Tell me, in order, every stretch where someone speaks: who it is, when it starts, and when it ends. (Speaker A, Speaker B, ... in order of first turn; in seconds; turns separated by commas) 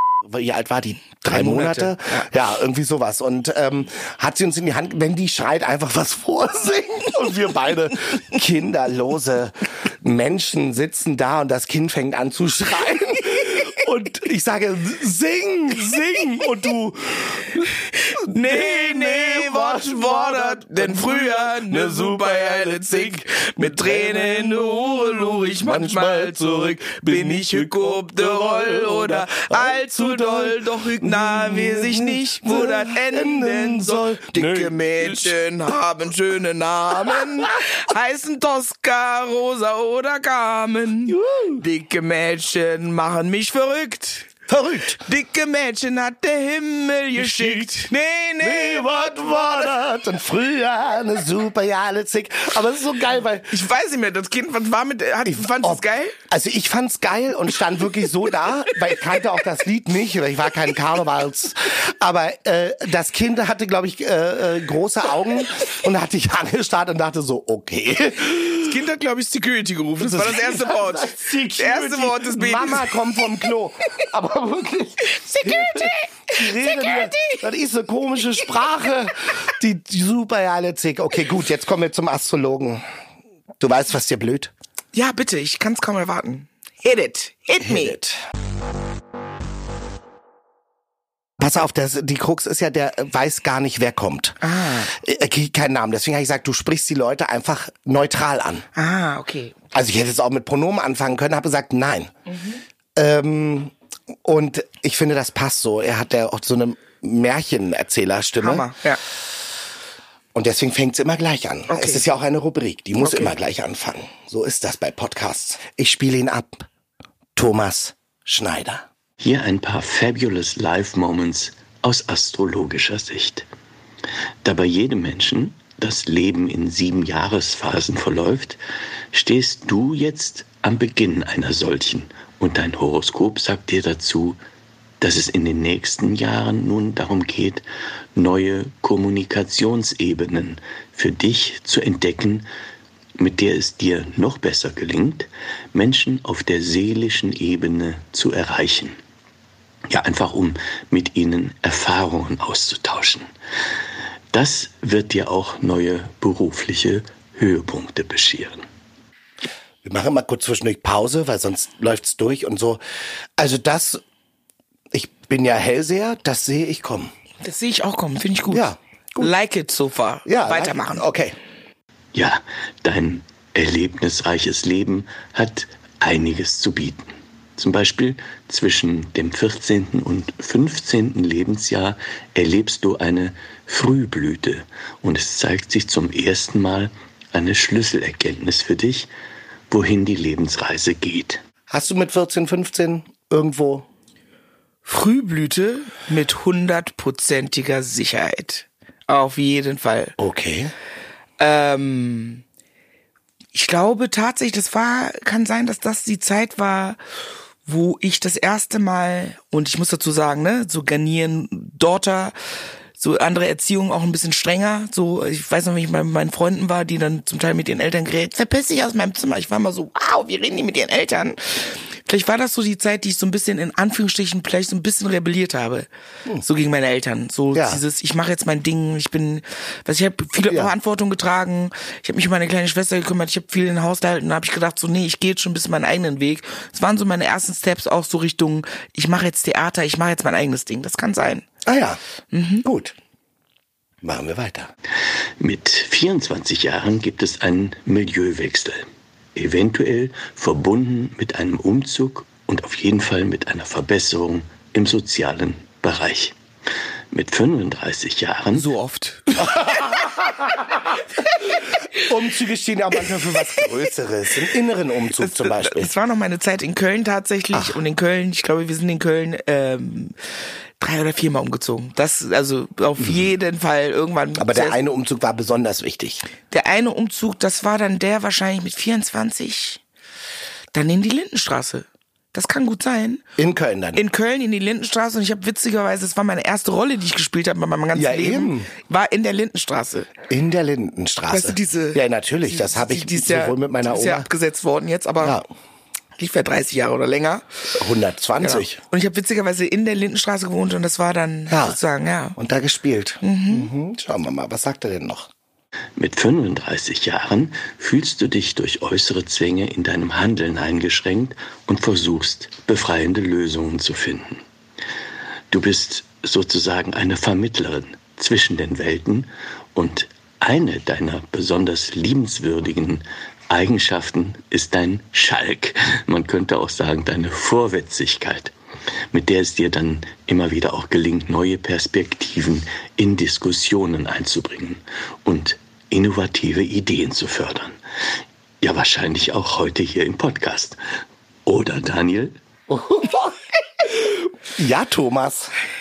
Speaker A: 0.2-35.4, Speaker B: 1.3-2.3, Speaker B: 17.9-44.3, Speaker A: 37.0-37.3, Speaker A: 41.1-41.6, Speaker A: 44.5-45.0, Speaker B: 45.1-49.8, Speaker A: 47.2-47.9, Speaker A: 48.4-53.5, Speaker B: 53.5-56.1, Speaker A: 55.3-68.7, Speaker B: 68.5-73.0, Speaker A: 70.0-82.8, Speaker B: 75.1-77.3, Speaker A: 83.6-84.5, Speaker B: 84.9-88.0, Speaker A: 87.6-88.2, Speaker A: 91.4-98.7, Speaker B: 94.4-94.9, Speaker B: 98.7-99.6, Speaker A: 99.7-102.1, Speaker B: 102.3-102.6, Speaker A: 103.0-103.7, Speaker A: 104.2-108.7, Speaker B: 108.4-109.0, Speaker A: 110.3-116.7, Speaker B: 111.7-112.0, Speaker B: 113.0-113.3, Speaker A: 117.4-118.8, Speaker C: 119.2-123.5, Speaker C: 124.4-128.6, Speaker C: 129.1-134.4, Speaker C: 135.0-137.6, Speaker C: 138.1-142.4, Speaker C: 143.2-149.0, Speaker C: 149.9-153.3, Speaker C: 154.3-158.7, Speaker A: 159.8-162.8, Speaker A: 163.4-164.0, Speaker A: 164.9-167.1, Speaker B: 167.4-171.1, Speaker A: 168.5-169.3, Speaker A: 170.3-171.3, Speaker C: 172.1-189.1, Speaker C: 189.7-191.4, Speaker A: 191.7-193.9, Speaker B: 194.8-200.2, Speaker A: 200.2-200.7, Speaker B: 201.4-202.4, Speaker B: 203.5-207.0, Speaker B: 207.7-212.3, Speaker B: 213.0-225.9, Speaker B: 226.4-241.4, Speaker A: 227.5-227.8, Speaker A: 230.4-230.7, Speaker A: 241.7-242.0, Speaker B: 242.3-242.6, Speaker A: 242.6-242.9, Speaker A: 244.0-244.7, Speaker C: 245.4-256.4, Speaker C: 257.1-258.7, Speaker B: 258.5-259.9, Speaker A: 259.4-260.9, Speaker A: 261.9-265.9, Speaker B: 263.1-263.7, Speaker B: 265.2-270.1, Speaker B: 270.8-274.8, Speaker A: 273.0-273.3, Speaker A: 274.4-276.3, Speaker B: 276.5-279.8, Speaker B: 280.7-283.2, Speaker A: 283.4-284.0, Speaker B: 283.9-290.1, Speaker A: 287.9-288.7, Speaker A: 290.3-294.3, Speaker B: 291.3-295.4, Speaker A: 295.2-295.4, Speaker B: 296.2-297.4, Speaker A: 297.8-298.8, Speaker B: 298.4-302.4, Speaker A: 301.5-301.8, Speaker A: 302.4-305.3, Speaker B: 303.2-303.7, Speaker C: 306.0-314.4, Speaker C: 315.5-328.5, Speaker C: 329.1-337.8, Speaker C: 338.6-340.8, Speaker C: 341.4-342.4, Speaker A: 342.7-343.4, Speaker A: 344.6-345.5